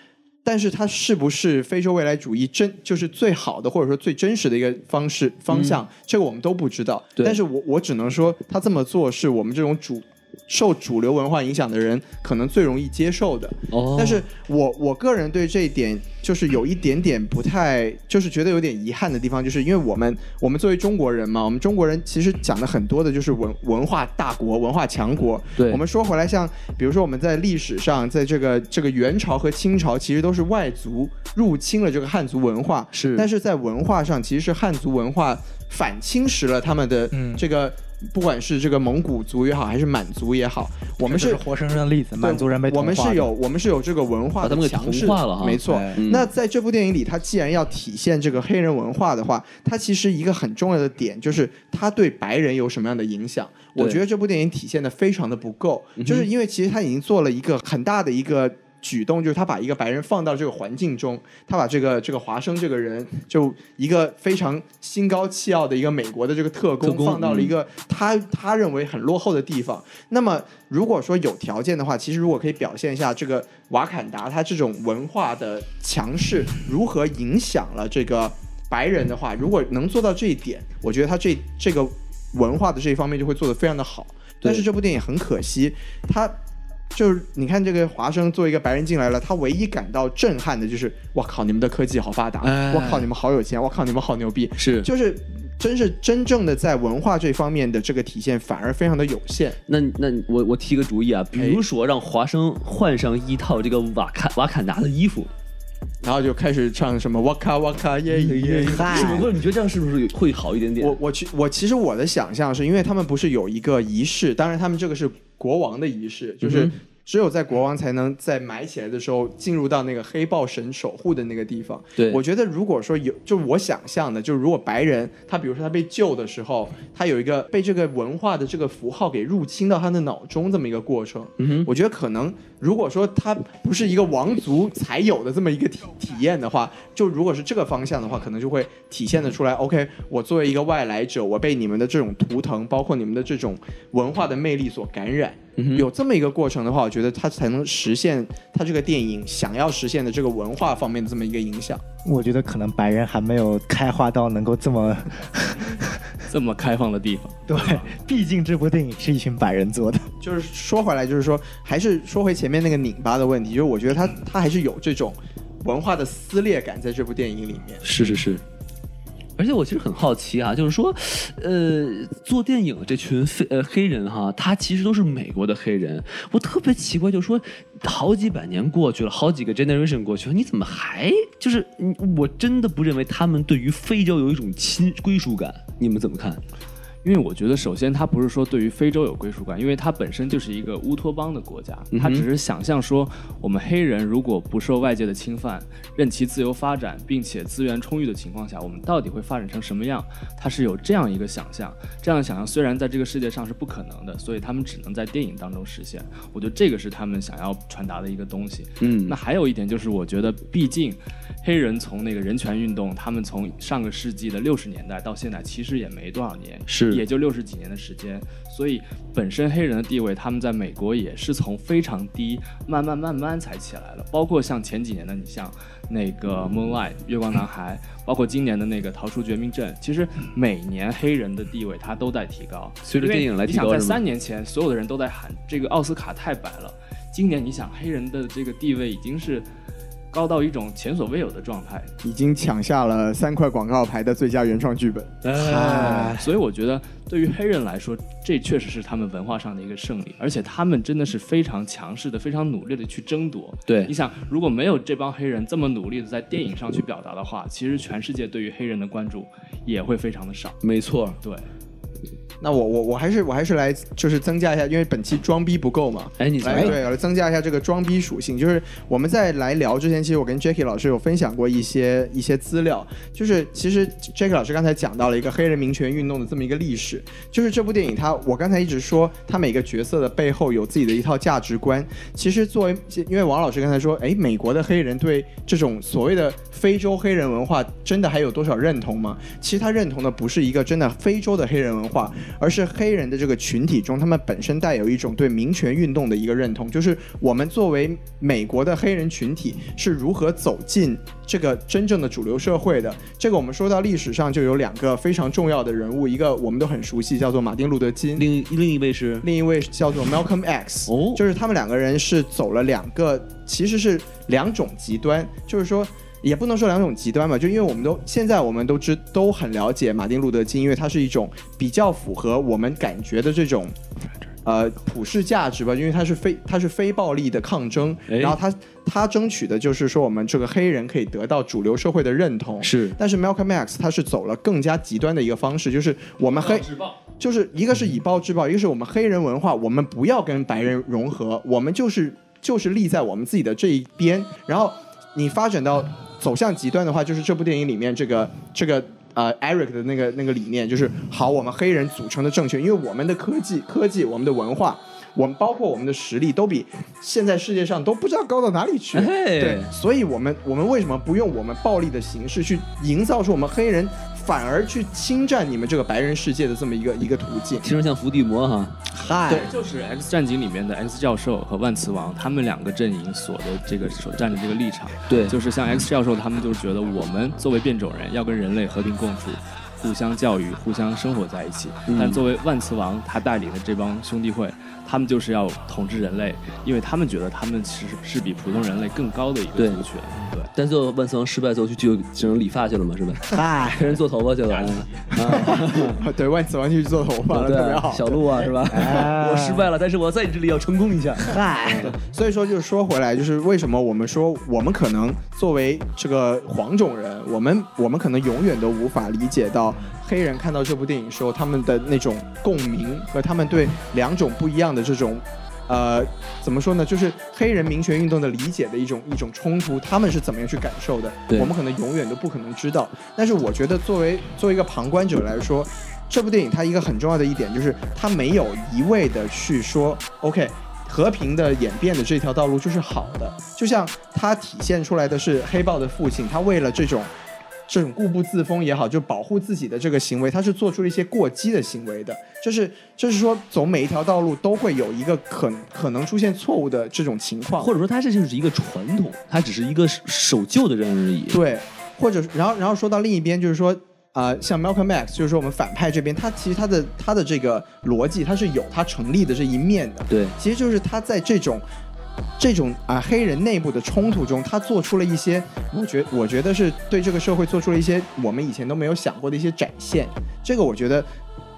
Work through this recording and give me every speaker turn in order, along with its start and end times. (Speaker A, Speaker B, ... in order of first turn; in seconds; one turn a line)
Speaker A: 0.4-41.4
Speaker B: 5.5-5.8
Speaker B: 13.7-14.2
Speaker B: 25.6-25.8
Speaker B: 32.9-33.3
Speaker C: 37.1-37.5
Speaker C: 41.0-43.3
Speaker A: 42.2-86.3
Speaker B: 44.4-46.3
Speaker C: 45.6-46.0
Speaker B: 53.8-54.0
Speaker B: 56.0-56.3
Speaker B: 66.8-67.5
Speaker A: 86.9-99.6
Speaker B: 92.4-93.1
Speaker B: 94.6-94.9
Speaker B: 99.7-105.3
Speaker A: 101.4-101.6
Speaker A: 106.0-109.3
Speaker B: 108.1-111.0
Speaker C: 108.7-109.3
Speaker A: 110.8-151.8
Speaker B: 116.4-116.8
Speaker B: 131.4-131.7
Speaker B: 145.6-145.9
Speaker C: 152.0-156.0
Speaker D: 156.3-157.9
Speaker C: 157.5-160.1
Speaker A: 160.2-167.8
Speaker B: 167.8-168.4
Speaker B: 169.4-186.4
Speaker D: 187.0-239.5
Speaker B: 191.9-192.2
Speaker B: 208.8-209.2
Speaker B: 216.7-217.0
Speaker B: 232.8-234.0
Speaker D: 240.1-241.9
Speaker A: 242.0-245.1
Speaker B: 245.2-246.2
Speaker C: 245.3-246.3
Speaker D: 245.6-260.6
Speaker B: 253.7-253.9
Speaker B: 260.6-261.2
Speaker D: 261.2-261.5
Speaker A: 262.4-308.3
Speaker B: 266.2-266.8
Speaker B: 308.2-309.3
Speaker A: 309.2-323.8
Speaker B: 310.9-311.2
Speaker A: 324.4-367.6
Speaker B: 328.1-328.4
Speaker B: 332.6-333.0
Speaker D: 336.4-336.8
Speaker B: 358.9-359.7
Speaker B: 367.6-368.8
Speaker C: 368.9-369.5
Speaker D: 369.2-390.5
Speaker B: 375.1-375.4
Speaker B: 381.9-382.2
Speaker B: 389.6-389.8
Speaker B: 390.5-396.0
Speaker C: 393.3-394.0
Speaker A: 395.4-398.4
Speaker B: 397.3-401.9
Speaker C: 398.7-399.7
Speaker C: 401.2-401.9
Speaker A: 402.0-437.1
Speaker A: 437.7-447.7
Speaker B: 447.6-451.4
Speaker A: 451.3-461.6
Speaker B: 460.1-460.4
Speaker A: 462.4-471.1